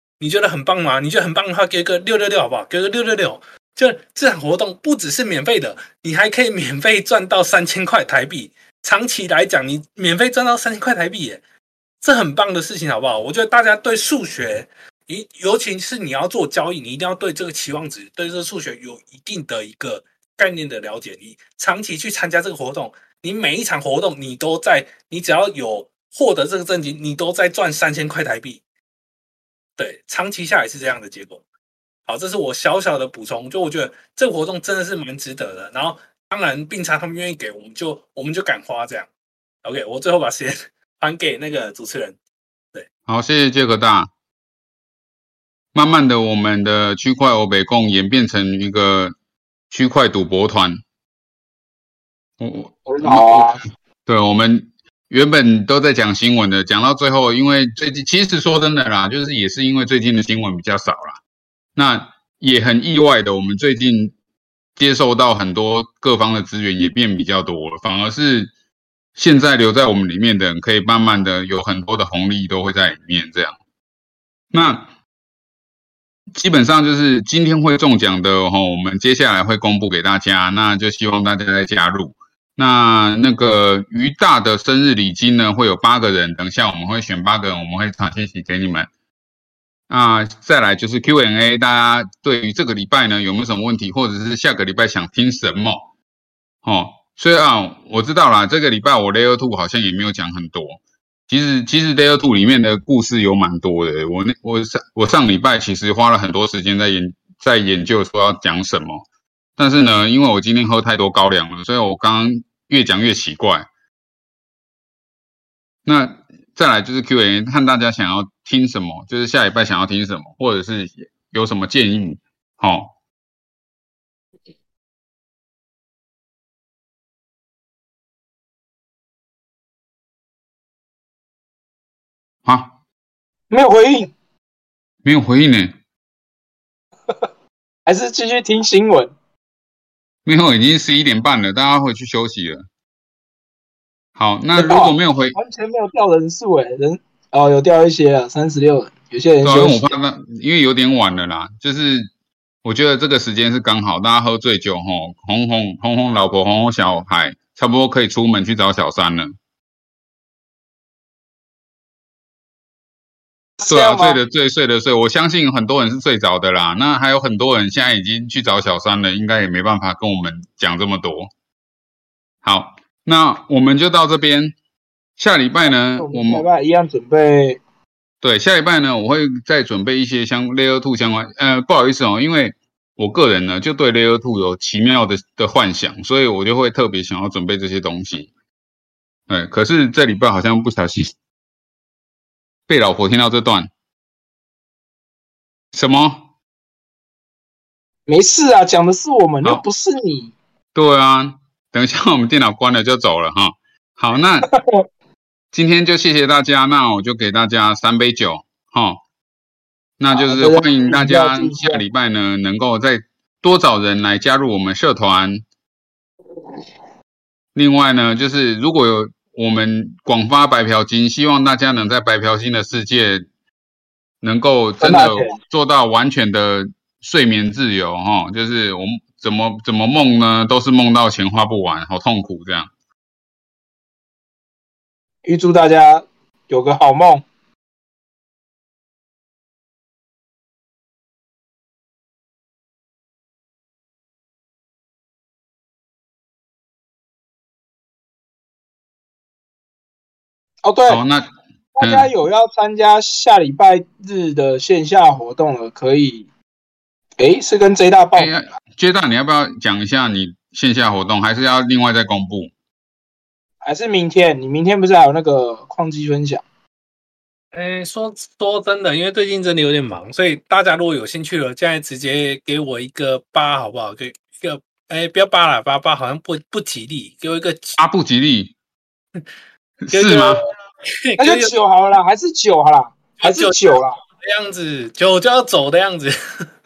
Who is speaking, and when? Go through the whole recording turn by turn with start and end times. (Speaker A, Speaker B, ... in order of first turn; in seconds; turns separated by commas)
Speaker A: 0.2-11.4, Speaker A: 12.0-28.6, Speaker A: 29.8-31.4, Speaker A: 32.1-39.1, Speaker A: 39.6-42.2, Speaker B: 43.1-44.1, Speaker B: 45.7-49.1, Speaker B: 49.7-50.8, Speaker B: 52.4-61.2, Speaker C: 52.9-53.6, Speaker B: 61.8-64.1, Speaker B: 64.8-68.5, Speaker B: 69.2-73.5, Speaker B: 74.5-74.9, Speaker B: 76.3-88.9, Speaker B: 89.9-95.8, Speaker B: 96.6-109.0, Speaker B: 109.6-113.7, Speaker B: 115.8-122.9, Speaker B: 132.4-132.7, Speaker C: 133.5-134.1, Speaker B: 135.0-135.7, Speaker C: 137.8-139.1, Speaker B: 140.2-142.7, Speaker B: 144.2-145.3, Speaker C: 144.5-149.9, Speaker B: 149.4-152.1, Speaker B: 152.6-159.3, Speaker C: 163.6-164.2, Speaker B: 163.6-171.3, Speaker B: 172.4-174.5, Speaker B: 175.2-176.4, Speaker C: 175.9-177.6, Speaker B: 178.2-188.3, Speaker B: 189.3-191.1, Speaker B: 192.7-193.7, Speaker B: 195.7-196.2, Speaker C: 198.1-200.3, Speaker B: 200.7-204.5, Speaker C: 204.5-204.8, Speaker B: 205.5-209.0, Speaker B: 210.0-215.4, Speaker C: 210.1-211.8, Speaker B: 217.5-223.2, Speaker B: 224.2-232.7, Speaker C: 224.8-225.4, Speaker C: 235.2-237.2, Speaker C: 250.6-251.0, Speaker B: 250.9-252.1, Speaker C: 251.8-256.3, Speaker C: 257.2-258.3, Speaker B: 258.1-262.5, Speaker C: 263.6-266.4, Speaker A: 267.5-277.8, Speaker B: 277.8-278.5, Speaker B: 279.9-280.4, Speaker A: 279.9-280.4, Speaker A: 281.0-281.5, Speaker C: 281.2-284.0, Speaker A: 283.2-286.4